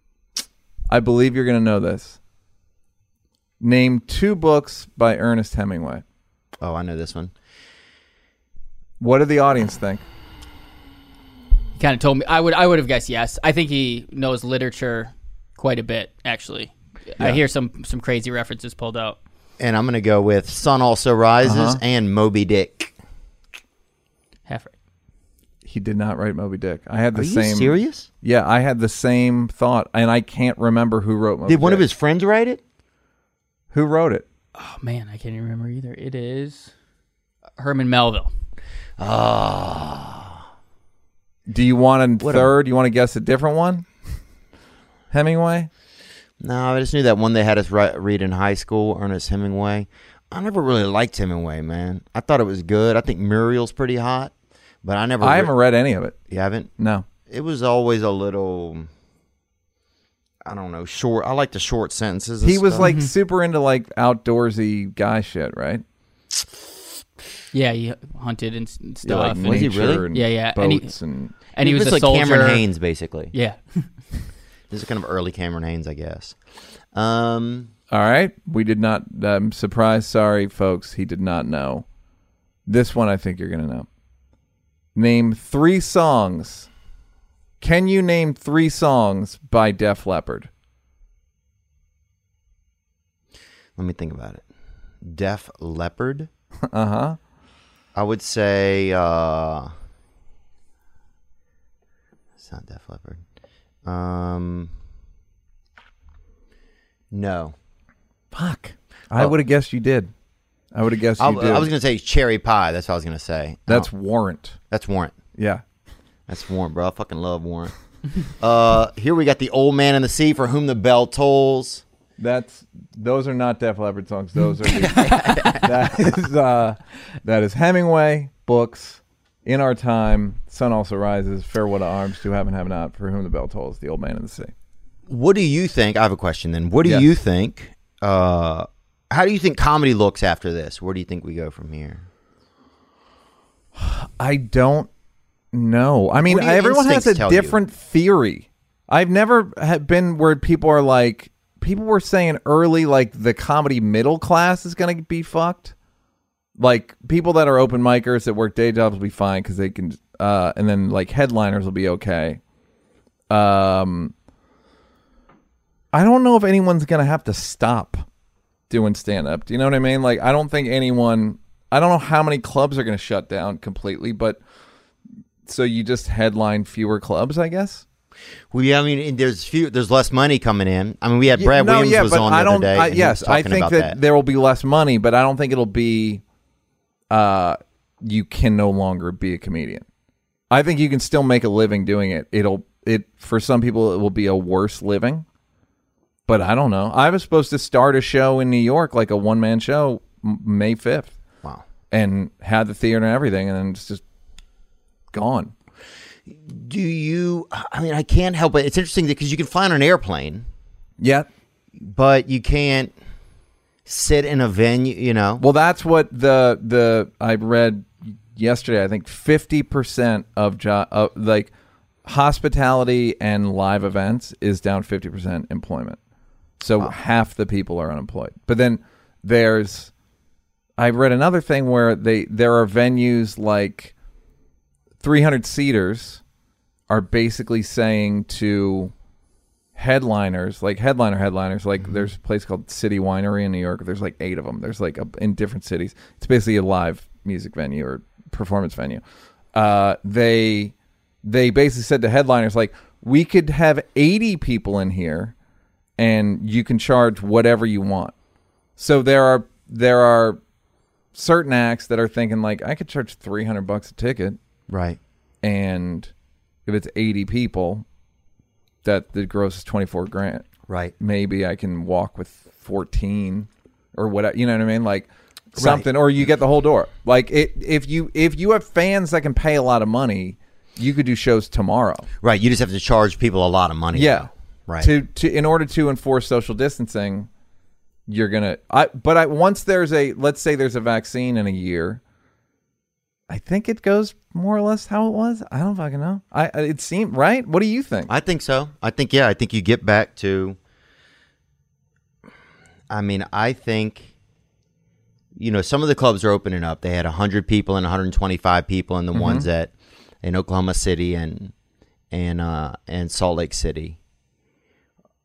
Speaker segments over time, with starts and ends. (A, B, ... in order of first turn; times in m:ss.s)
0:00.9-0:02.2 A
0:03.6-0:06.0 A
0:06.6-0:07.3 B
0:09.0-0:10.0 A
0:11.8-0:19.2 C
0:19.6-0:22.9 B
0:21.4-0:21.8 A
0:24.5-0:24.7 C
0:25.6-0:31.8 A
0:27.1-0:28.1 B
0:31.4-0:32.6 B
0:33.7-0:34.2 A
0:34.6-0:36.7 C
0:37.6-0:38.3 C
0:39.0-0:40.4 B
0:41.5-0:43.8 A
0:42.2-0:42.5 B
0:45.1-0:45.7 A
0:46.4-0:55.5 B
0:55.2-0:56.2 A
0:56.3-0:56.7 B
0:56.8-0:57.0 A
0:57.3-0:58.9 B
1:00.4-1:02.9 B
1:02.4-1:05.8 A
1:02.8-1:03.1 C
1:07.5-1:10.9 C
1:09.0-1:11.3 A
1:09.2-1:10.0 B
1:11.5-1:12.6 C
1:11.6-1:13.3 B
1:13.3-1:13.8 C
1:14.7-1:16.4 B
1:16.9-1:17.7 B
1:17.9-1:21.8 A
1:22.6-1:23.9 A
1:24.9-1:26.7 A
1:27.6-1:30.5 A
1:33.8-1:34.4 B
1:35.0-1:36.3 B
1:36.7-1:37.2 A
1:37.9-1:39.7 B
1:42.4-1:43.2 B
1:43.8-1:44.7 B
1:47.1-1:47.5 B
1:48.3-1:50.1 A
1:50.7-1:51.7 A
1:51.2-1:53.9 B
1:53.7-1:54.6 A
1:54.7-1:55.1 B
1:55.4-1:55.6 A
1:56.3-1:57.7 B
1:58.3-2:01.8 B
2:02.2-2:14.5 A
2:04.7-2:05.7 B
2:15.1-2:22.0 B
2:23.8-2:24.9 A
2:25.5-2:35.7 A
2:26.2-2:27.6 B
2:36.6-2:42.4 A
2:43.3-2:44.1 A
2:45.9-2:48.0 A
2:48.7-2:54.4 A
2:55.4-2:57.8 A
2:58.5-3:04.0 B
3:01.3-3:06.2 A
3:07.1-3:09.8 A
3:10.5-3:15.2 A
3:16.3-3:21.1 A
3:21.9-3:24.0 A
3:25.1-3:25.5 A
3:26.3-3:30.4 B
3:31.0-3:31.3 A
3:31.8-3:32.9 B
3:33.8-3:35.4 B
3:35.4-3:41.5 A
3:42.0-3:46.0 A
3:46.6-3:49.9 A
3:50.8-3:53.9 A
3:55.0-3:56.2 A
3:56.9-3:58.9 A
3:59.8-4:09.0 A
4:09.5-4:15.3 A
4:16.0-4:18.1 A
4:18.8-4:20.4 A
4:21.1-4:24.4 A
4:24.7-4:25.0 B
4:25.4-4:26.1 A
4:26.6-4:27.8 A
4:28.8-4:30.5 A
4:30.7-4:30.9 B
4:31.0-4:42.1 A
4:35.6-4:35.9 B
4:42.2-4:44.9 B
4:43.9-4:44.3 A
4:44.8-4:47.3 A
4:48.1-4:52.0 A
4:53.3-4:58.1 A
4:58.1-5:00.6 B
5:02.9-5:04.1 B
5:05.4-5:09.7 B
5:09.1-5:09.5 A
5:10.2-5:11.5 B
5:12.1-5:14.0 B